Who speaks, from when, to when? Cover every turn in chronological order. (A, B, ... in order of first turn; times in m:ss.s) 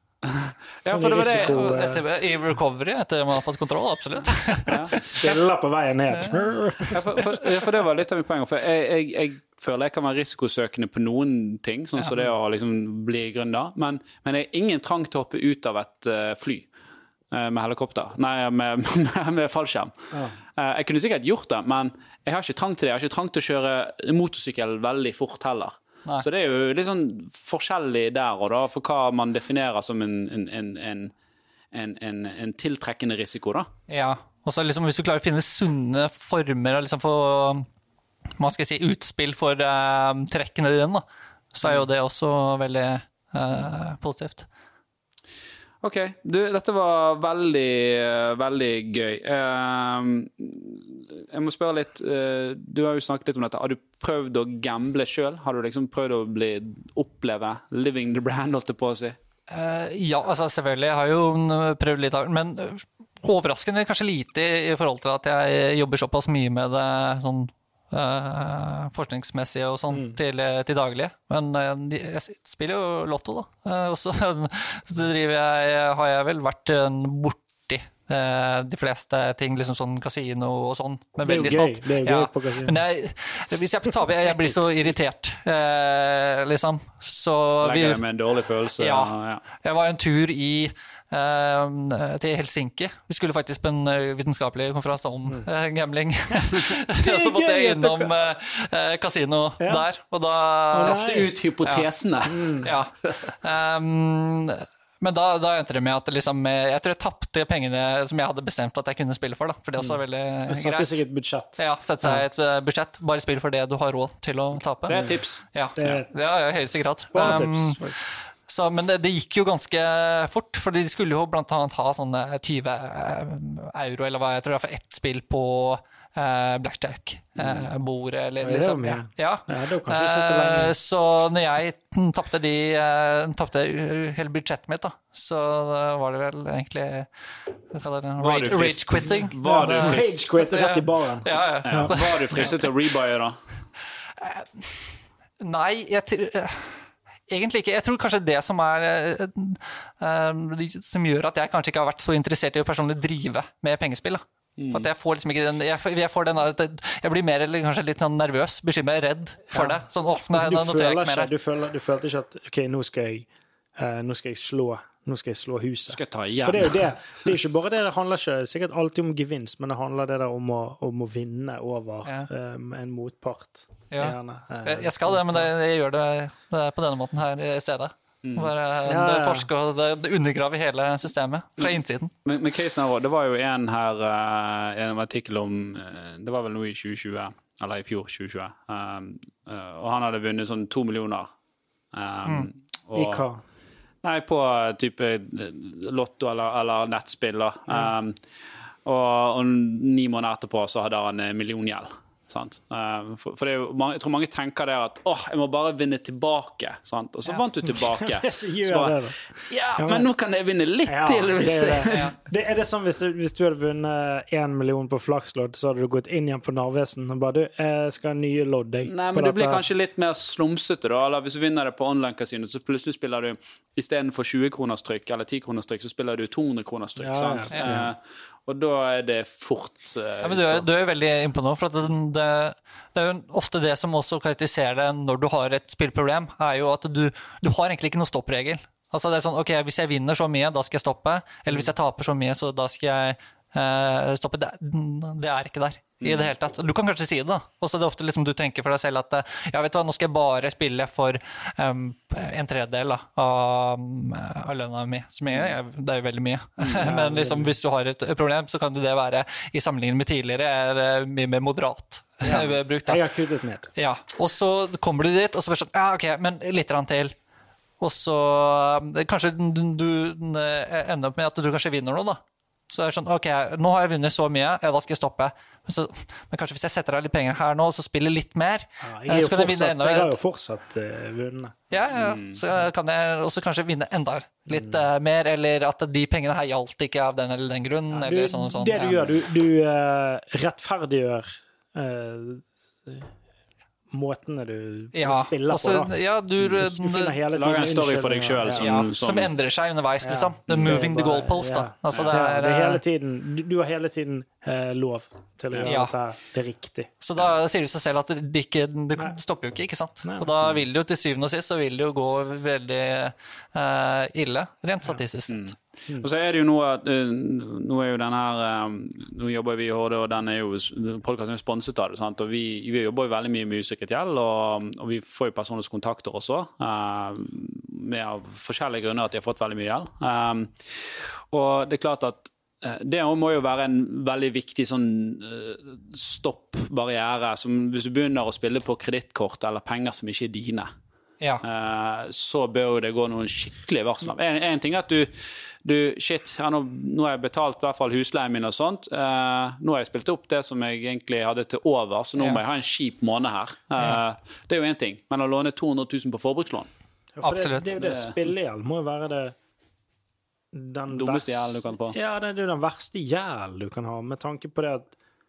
0:00.3-0:01.7 A
0:00.8-0:02.0 B
0:01.1-0:05.1 C
0:04.7-0:05.0 A
0:04.9-0:07.4 B
0:06.1-0:06.4 C
0:06.9-0:16.7 A
0:12.0-0:12.2 C
0:17.3-0:31.1 A
0:20.1-0:20.4 B
0:31.7-0:33.7 A
0:33.9-0:37.6 C
0:38.4-0:44.5 C
0:45.8-0:59.2 A
0:59.5-1:28.0 C
1:09.9-1:10.2 B
1:21.2-1:22.8 B
1:27.6-1:29.4 A
1:28.8-1:41.0 C
1:36.4-1:38.1 B
1:39.6-1:39.9 B
1:40.7-1:41.3 B
1:40.8-1:43.2 A
1:42.3-1:42.7 B
1:42.6-1:51.0 C
1:50.5-1:52.2 B
1:51.6-2:17.1 C
1:54.9-1:55.9 A
1:55.8-1:56.1 B
1:57.1-1:58.0 B
2:07.4-2:07.6 A
2:08.4-2:10.8 B
2:17.7-2:22.7 C
2:18.2-2:20.2 A
2:19.4-2:22.6 B
2:21.6-2:23.4 A
2:24.2-2:24.9 C
2:25.4-2:41.3 C
2:34.6-2:34.9 A
2:39.5-2:55.5 B
2:45.9-2:47.2 A
2:53.9-3:02.1 C
2:58.2-2:58.5 A
2:58.8-2:59.5 B
3:02.2-3:11.3 A
3:11.9-3:13.2 A
3:12.9-3:13.4 B
3:14.0-3:18.2 A
3:18.8-3:32.1 A
3:27.6-3:30.1 B
3:30.8-3:39.6 B
3:31.9-3:32.1 C
3:38.8-3:50.6 A
3:47.0-3:47.9 B
3:47.5-3:47.8 C
3:50.2-4:23.0 C
4:06.0-4:06.3 A
4:16.6-4:17.5 B
4:22.2-4:23.7 B
4:23.7-4:27.1 C
4:27.8-4:40.1 C
4:38.8-4:41.6 B
4:41.7-4:49.0 C
4:41.9-4:42.4 A
4:44.5-4:44.8 B
4:47.9-4:53.1 B
4:53.9-4:58.8 B
4:54.9-4:57.1 C
4:57.3-4:59.3 A
4:58.6-5:02.8 C
5:00.0-5:06.9 B
5:00.5-5:00.8 A
5:05.6-5:05.9 C
5:07.0-5:15.5 C
5:10.0-5:10.4 B
5:15.3-5:40.7 A
5:41.4-5:56.7 A
5:57.2-5:59.3 B
5:57.2-5:57.7 C
5:57.8-5:58.2 A
6:00.5-6:04.9 B
6:00.9-6:02.0 A